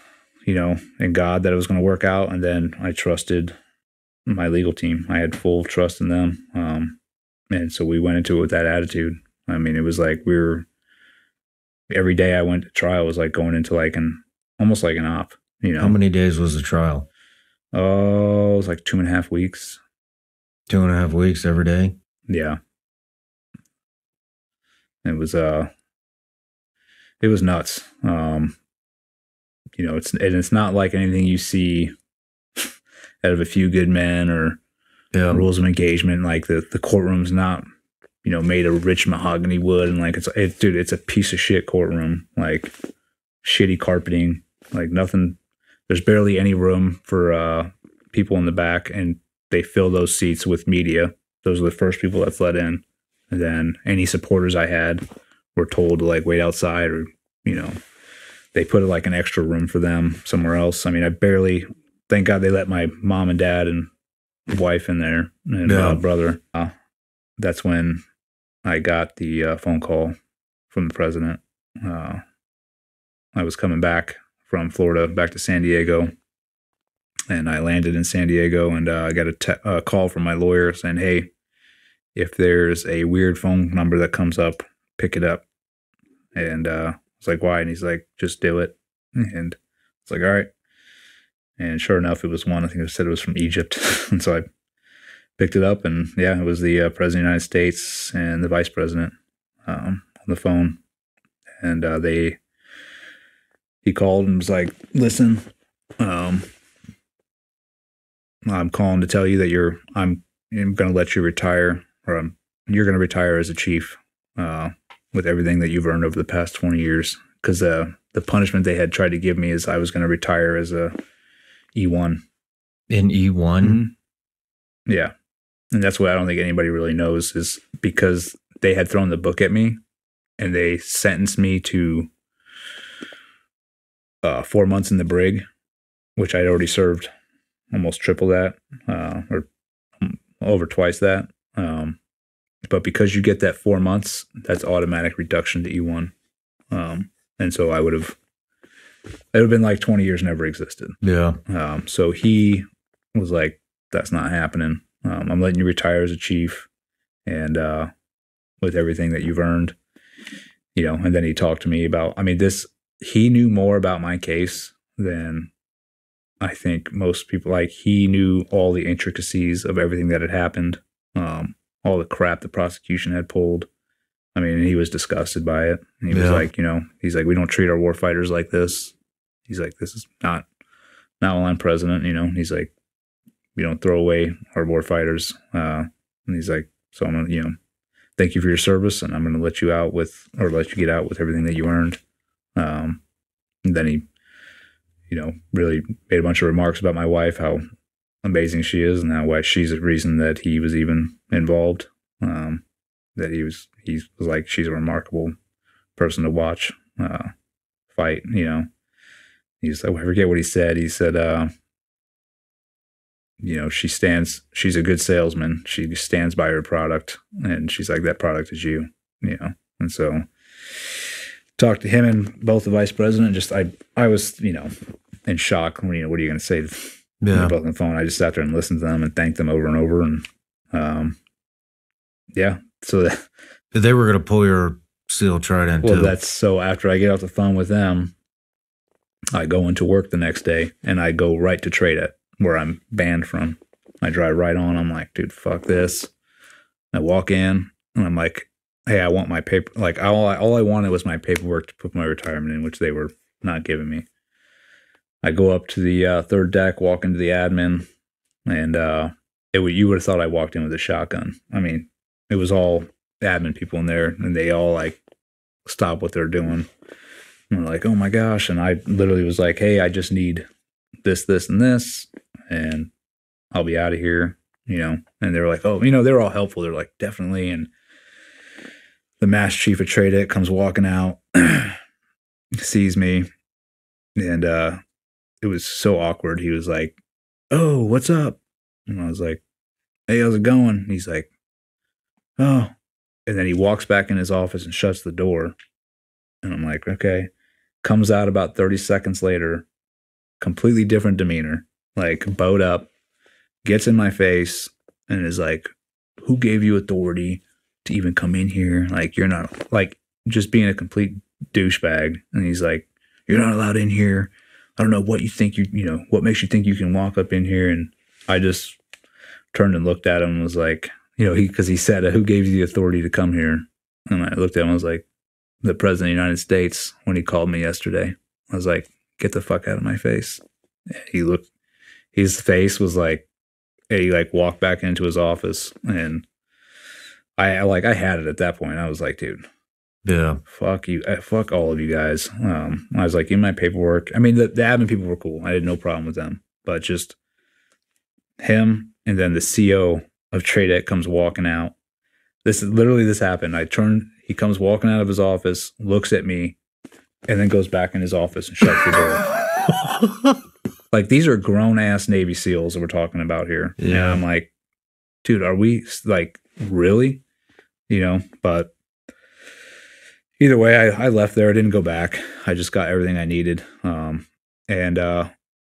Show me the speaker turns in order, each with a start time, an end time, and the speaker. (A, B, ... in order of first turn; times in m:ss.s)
0:00.4-0:03.6 A
0:04.3-0:07.0 A
0:07.5-0:10.7 A
0:11.9-0:16.0 A
0:15.8-0:17.1 B
0:17.7-0:19.8 A
0:20.7-0:21.9 B
0:22.3-0:22.6 A
0:25.0-0:25.7 A
0:27.2-0:28.6 A
0:29.8-0:31.9 A
0:33.2-0:34.6 A
0:35.1-0:35.4 B
0:35.3-0:37.6 A
0:38.2-0:42.7 A
0:43.4-0:55.0 A
0:55.6-0:57.7 A
0:58.5-1:03.9 A
1:04.5-1:06.7 A
1:05.6-1:06.0 B
1:07.4-1:08.0 A
1:08.6-1:10.1 A
1:10.7-1:12.2 A
1:13.4-1:16.1 A
1:17.3-1:21.3 A
1:22.1-1:25.4 A
1:26.3-1:30.5 A
1:31.6-1:34.4 A
1:35.4-1:39.1 A
1:39.6-1:40.8 A
1:41.6-1:42.4 A
1:43.8-1:45.4 A
1:46.0-1:46.4 A
1:48.5-2:01.0 A
2:01.7-2:02.2 A
2:02.9-2:03.8 B
2:03.6-2:03.9 A
2:04.9-2:05.1 A
2:05.7-2:09.8 A
2:10.4-2:12.1 A
2:14.2-2:15.4 A
2:16.2-2:17.1 A
2:17.7-2:19.5 A
2:20.0-2:22.0 A
2:22.7-2:26.1 A
2:26.7-2:28.2 A
2:29.3-2:36.7 A
2:31.0-2:31.4 B
2:37.2-2:37.9 A
2:38.6-2:39.7 A
2:40.7-2:45.5 A
2:46.4-2:53.7 A
2:54.3-2:58.9 A
2:56.1-2:56.4 B
2:59.5-3:00.4 A
3:01.2-3:02.7 A
3:03.6-3:07.5 A
3:08.2-3:12.0 A
3:12.6-3:13.0 A
3:13.6-3:14.0 A
3:15.1-3:17.6 A
3:18.2-3:22.6 A
3:23.2-3:25.3 A
3:26.0-3:27.3 A
3:27.9-3:28.6 A
3:29.6-3:31.5 A
3:33.4-3:44.7 A
3:45.2-3:51.2 A
3:47.2-3:47.5 B
3:52.3-3:53.2 A
3:53.7-3:56.2 B
3:55.8-3:58.1 A
3:59.3-4:06.1 A
4:06.9-4:14.0 A
4:15.2-4:17.8 A
4:18.5-4:25.0 A
4:25.6-4:26.7 A
4:27.5-4:30.4 A
4:31.0-4:32.9 A
4:33.5-4:37.7 A
4:39.2-4:41.8 A
4:42.6-4:43.3 A
4:44.2-4:44.8 A
4:45.4-4:47.0 A
4:47.5-4:49.4 A
4:50.1-4:51.3 A
4:52.4-4:52.7 A
4:53.3-4:55.6 A
4:56.4-4:57.3 A
4:57.8-4:59.6 A
5:00.4-5:02.9 A
5:03.6-5:05.7 A
5:06.2-5:18.8 A
5:19.5-5:25.0 A
5:25.6-5:30.4 A
5:30.9-5:31.5 A
5:32.1-5:33.3 A
5:33.9-5:36.2 A
5:37.4-5:39.4 A
5:40.0-5:40.4 B
5:40.5-5:47.2 A
5:48.4-5:51.7 A
5:52.4-5:56.6 A
5:57.3-5:59.2 A
5:59.7-6:00.4 B
6:00.9-6:04.5 A
6:03.8-6:04.2 B
6:05.2-6:07.2 A
6:07.9-6:08.7 A
6:10.4-6:15.3 A